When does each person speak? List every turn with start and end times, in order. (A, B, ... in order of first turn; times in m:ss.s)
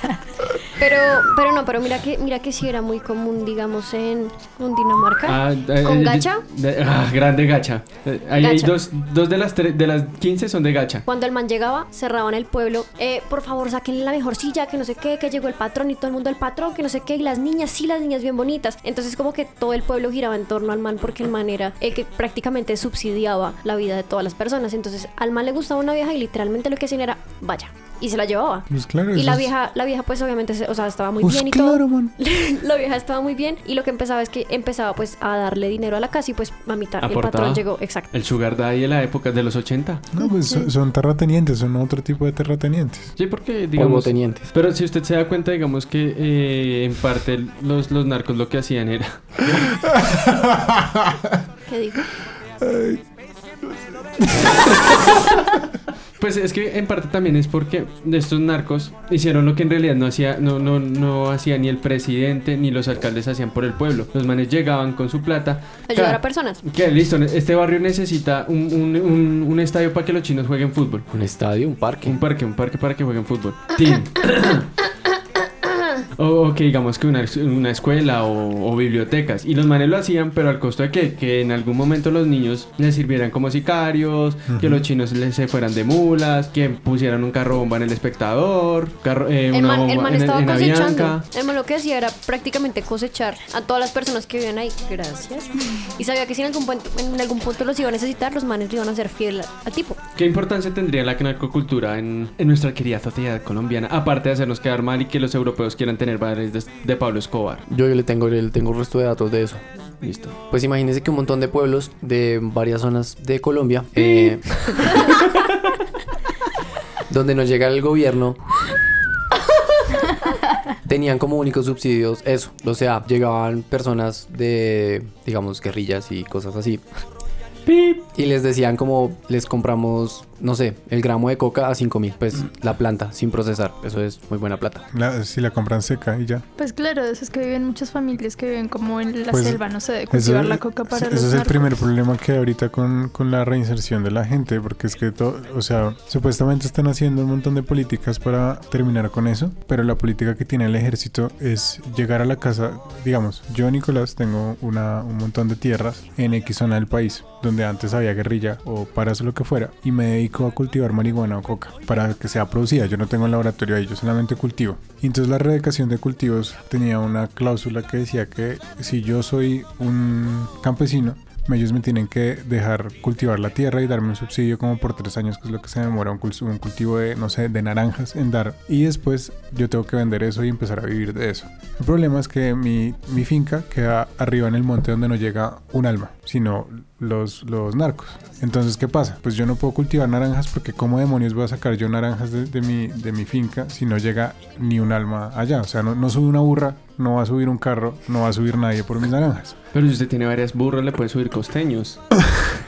0:00.8-0:06.4 A
0:05.3-0:11.1 B
0:08.4-0:08.8 A
0:11.1-0:38.1 A
0:28.7-0:29.5 C
0:31.2-0:32.2 C
0:37.0-0:40.1 B
0:40.1-0:43.1 C
0:40.2-0:40.7 D
0:43.2-0:49.8 B
0:43.8-0:44.4 E
0:49.9-0:51.4 C
0:51.7-0:52.1 A
0:52.6-0:53.0 C
0:54.6-0:55.4 B
0:56.2-1:11.1 B
1:05.9-1:06.6 A
1:11.1-1:12.2 E
1:12.0-1:14.7 B
1:16.2-1:31.3 B
1:24.5-1:24.8 C
1:29.5-1:40.0 A
1:40.2-1:47.7 B
1:47.7-1:49.6 E
1:50.0-1:50.4 B
1:50.5-1:54.5 E
1:54.0-1:55.0 D
1:57.1-1:58.4 E
2:00.9-2:06.8 E
2:07.7-2:08.0 B
2:08.1-2:14.8 E
2:14.9-2:16.4 C
2:16.6-2:21.8 D
2:19.3-3:19.6 C
3:19.7-3:22.0 B